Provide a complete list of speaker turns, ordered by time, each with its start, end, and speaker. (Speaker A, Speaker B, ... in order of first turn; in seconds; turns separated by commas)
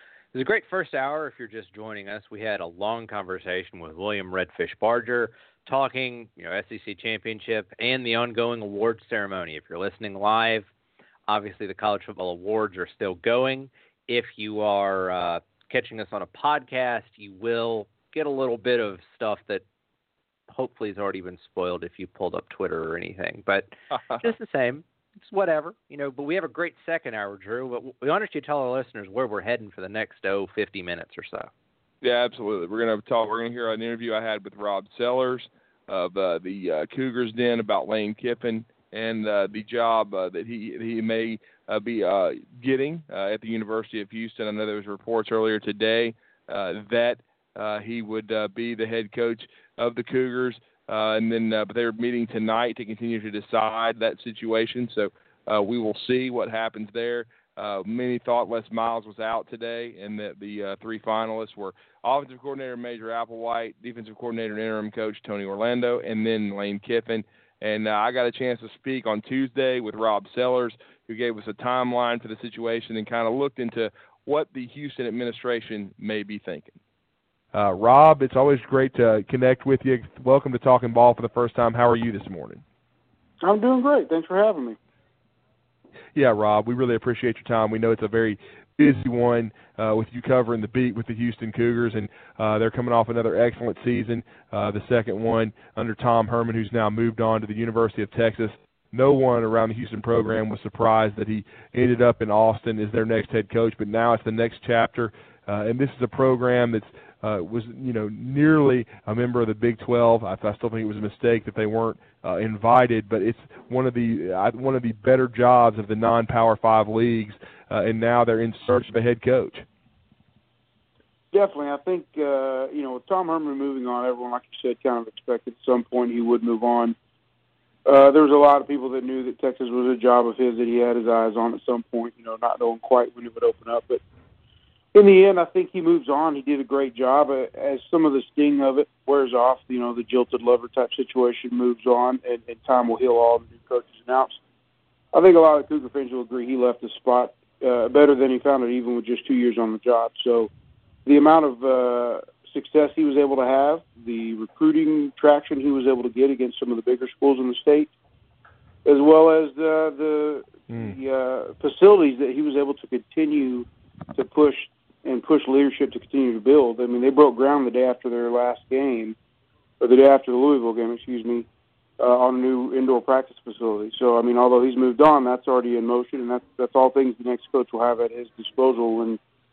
Speaker A: 0.3-10.7, Speaker A: 11.3-19.6, Speaker A: 20.5-31.5, Speaker B: 32.0-76.8, Speaker B: 77.5-82.6, Speaker C: 83.4-84.8, Speaker B: 86.1-119.7, Speaker C: 121.3-126.9, Speaker C: 127.8-134.0, Speaker C: 134.9-144.4, Speaker C: 145.1-150.5, Speaker C: 151.1-157.9, Speaker C: 158.8-169.2, Speaker B: 160.7-160.9, Speaker C: 169.8-171.5, Speaker C: 172.0-179.2